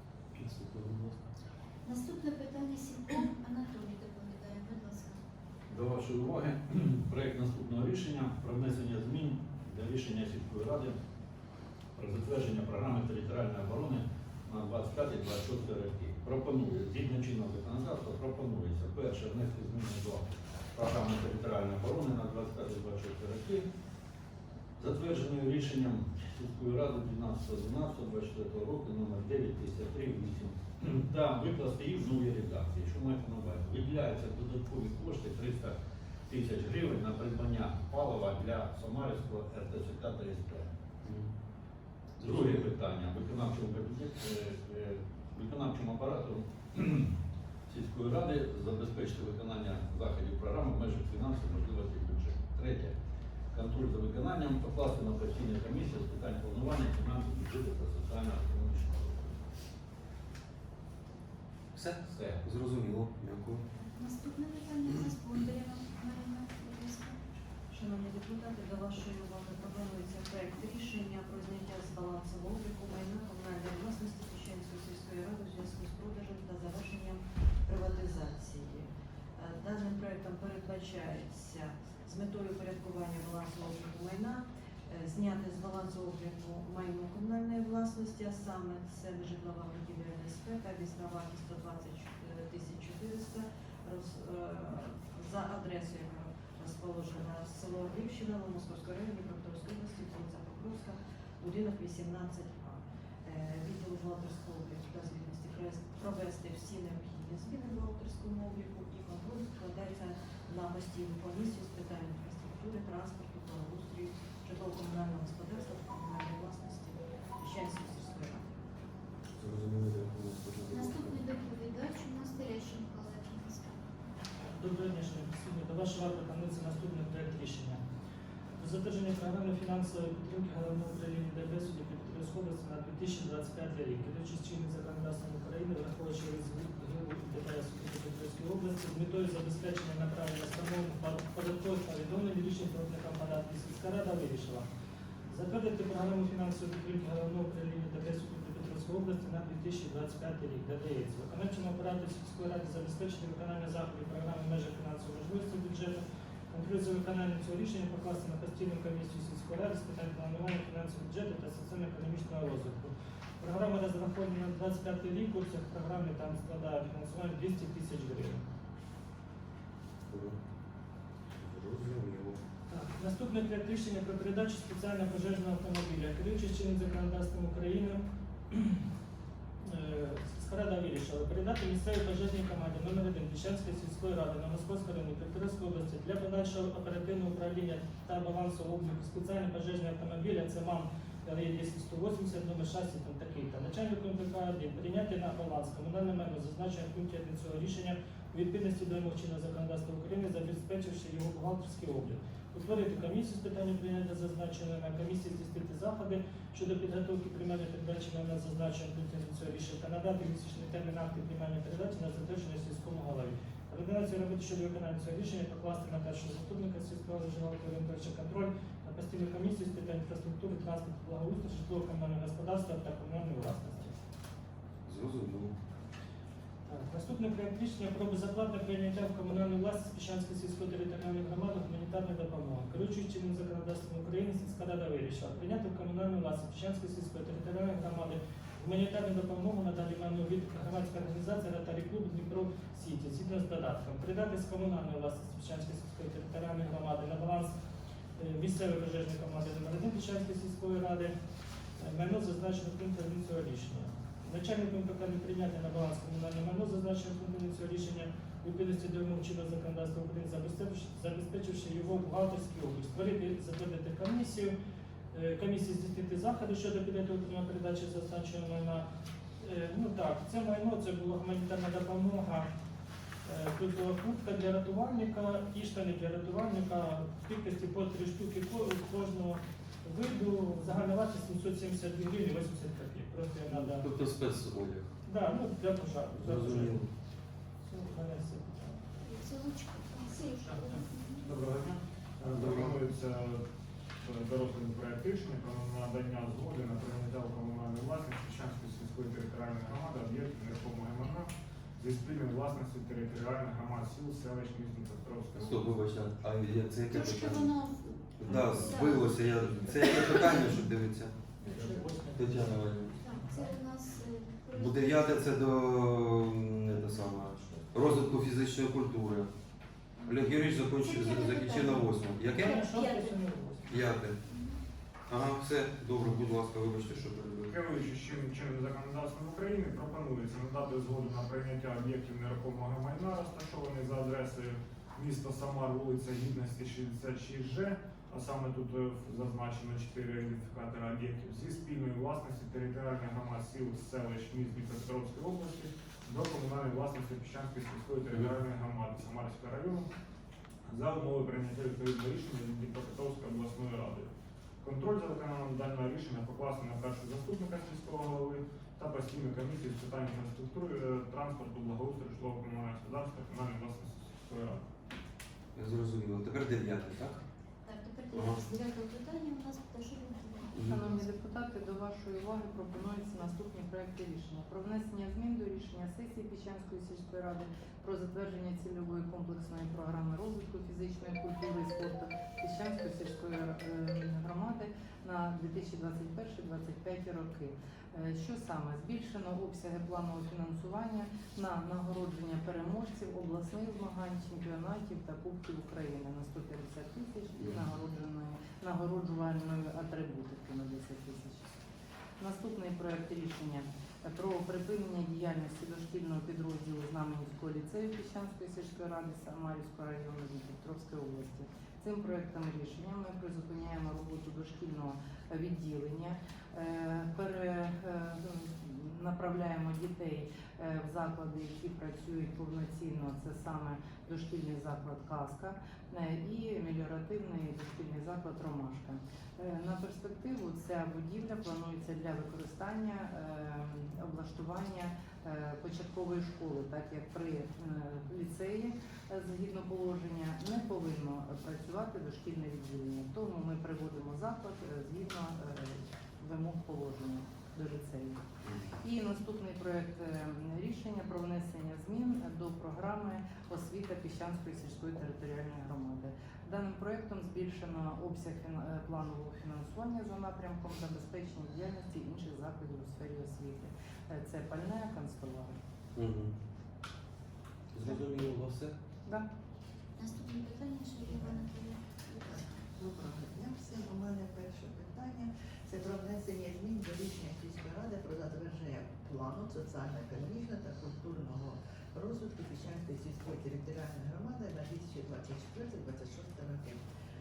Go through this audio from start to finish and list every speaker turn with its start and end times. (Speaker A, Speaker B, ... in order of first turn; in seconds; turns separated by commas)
Speaker A: 0.3-1.2, Speaker B: 1.8-5.2, Speaker C: 5.7-10.9, Speaker C: 11.9-23.7, Speaker C: 24.8-35.8, Speaker C: 36.3-40.7, Speaker A: 41.0-41.3, Speaker A: 42.2-42.7, Speaker C: 42.2-47.1, Speaker C: 47.7-52.9, Speaker C: 53.5-59.4, Speaker A: 61.7-63.6, Speaker C: 62.1-62.4, Speaker B: 63.8-67.2, Speaker D: 67.7-118.5, Speaker A: 119.3-121.2, Speaker B: 120.7-123.8, Speaker E: 124.5-127.8, Speaker E: 128.6-144.7, Speaker E: 145.3-168.4, Speaker A: 170.1-170.4, Speaker A: 171.4-172.4, Speaker E: 172.7-178.8, Speaker E: 179.6-224.0, Speaker A: 224.8-225.6, Speaker E: 226.7-247.5, Speaker E: 248.2-251.1, Speaker E: 251.8-264.5, Speaker E: 265.1-268.9, Speaker E: 269.4-272.5, Speaker E: 273.2-283.9, Speaker A: 283.5-284.9, Speaker E: 285.1-286.7, Speaker A: 286.1-286.9, Speaker E: 287.7-288.8, Speaker B: 289.0-291.2, Speaker F: 291.2-293.4, Speaker A: 292.2-292.8, Speaker F: 294.0-305.8, Speaker A: 305.4-307.5, Speaker B: 306.9-310.6, Speaker A: 308.2-311.1, Speaker F: 311.5-312.2, Speaker E: 311.6-312.0, Speaker A: 312.1-313.0, Speaker B: 313.0-315.4, Speaker A: 314.5-319.3, Speaker B: 320.0-323.2, Speaker A: 320.0-322.7, Speaker E: 322.3-323.7, Speaker A: 323.7-324.2, Speaker B: 324.3-324.6, Speaker A: 325.1-327.6, Speaker F: 327.5-349.9, Speaker F: 350.7-354.1, Speaker F: 354.6-364.6, Speaker A: 365.5-367.2, Speaker B: 367.6-370.5, Speaker A: 368.1-368.4, Speaker A: 370.5-370.9, Speaker G: 370.6-401.6, Speaker A: 397.4-397.6, Speaker G: 402.2-448.2, Speaker A: 448.4-448.7, Speaker G: 448.8-465.5, Speaker A: 465.9-466.3, Speaker A: 467.7-468.7, Speaker B: 470.0-472.6, Speaker H: 471.1-471.4, Speaker H: 472.2-486.8